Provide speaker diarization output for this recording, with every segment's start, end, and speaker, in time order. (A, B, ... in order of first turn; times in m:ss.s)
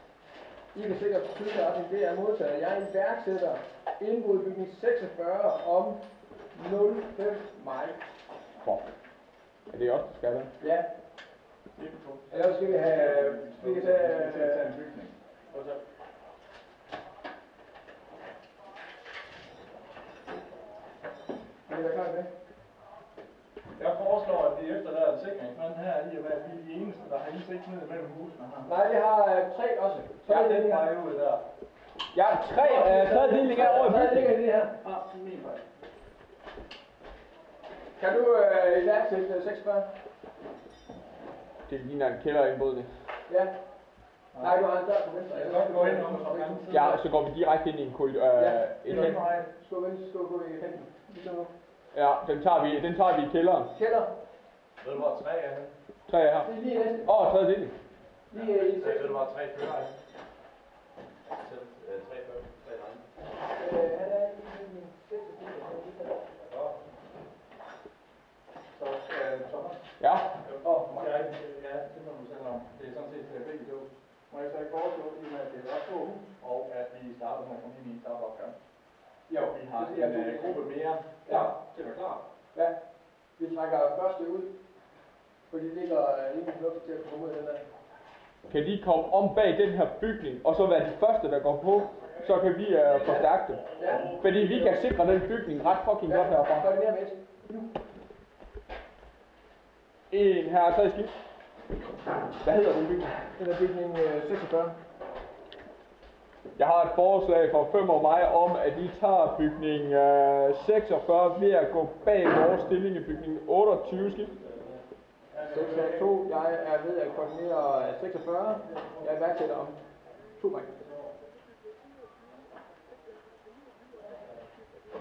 0:00.7-0:06.0 A
0:06.5-0:08.0 A
0:08.6-0:08.9 B
0:09.7-0:10.5 B
0:10.6-0:10.9 A
0:11.8-0:15.8 C
0:12.3-0:14.7 A
0:21.7-0:22.3 A
0:23.8-0:28.7 C
0:28.6-0:30.9 A
0:30.2-0:31.4 C
0:32.1-0:34.4 B
0:32.6-0:34.8 A
0:34.8-0:35.6 C
0:38.0-0:39.9 A
0:41.7-0:42.9 B
0:43.3-0:43.5 A
0:44.3-0:44.7 C
0:44.4-0:46.8 A
0:45.3-0:47.0 C
0:46.7-0:49.2 B
0:48.4-0:51.5 A
0:48.9-0:49.5 C
0:51.9-0:53.7 B
0:53.8-0:54.1 A
0:54.8-0:55.7 C
0:56.1-0:56.5 B
0:56.4-0:57.1 A
0:57.0-0:57.8 B
0:58.3-0:59.2 A
0:58.7-0:59.9 C
1:01.3-1:03.0 C
1:03.6-1:06.3 A
1:06.5-1:06.8 C
1:08.8-1:09.8 C
1:10.0-1:10.3 B
1:10.5-1:18.6 C
1:10.6-1:11.3 A
1:19.3-1:20.6 A
1:19.5-1:22.2 C
1:21.3-1:21.5 A
1:23.4-1:24.5 A
1:25.5-1:27.6 A
1:28.5-1:36.7 B
1:33.8-1:34.8 A
1:36.0-1:37.7 A
1:40.1-1:41.1 B
1:42.4-1:43.2 B
1:43.4-1:44.8 A
1:46.6-1:54.4 B
1:54.4-1:56.1 C
1:55.4-1:59.8 A
2:00.4-2:00.8 A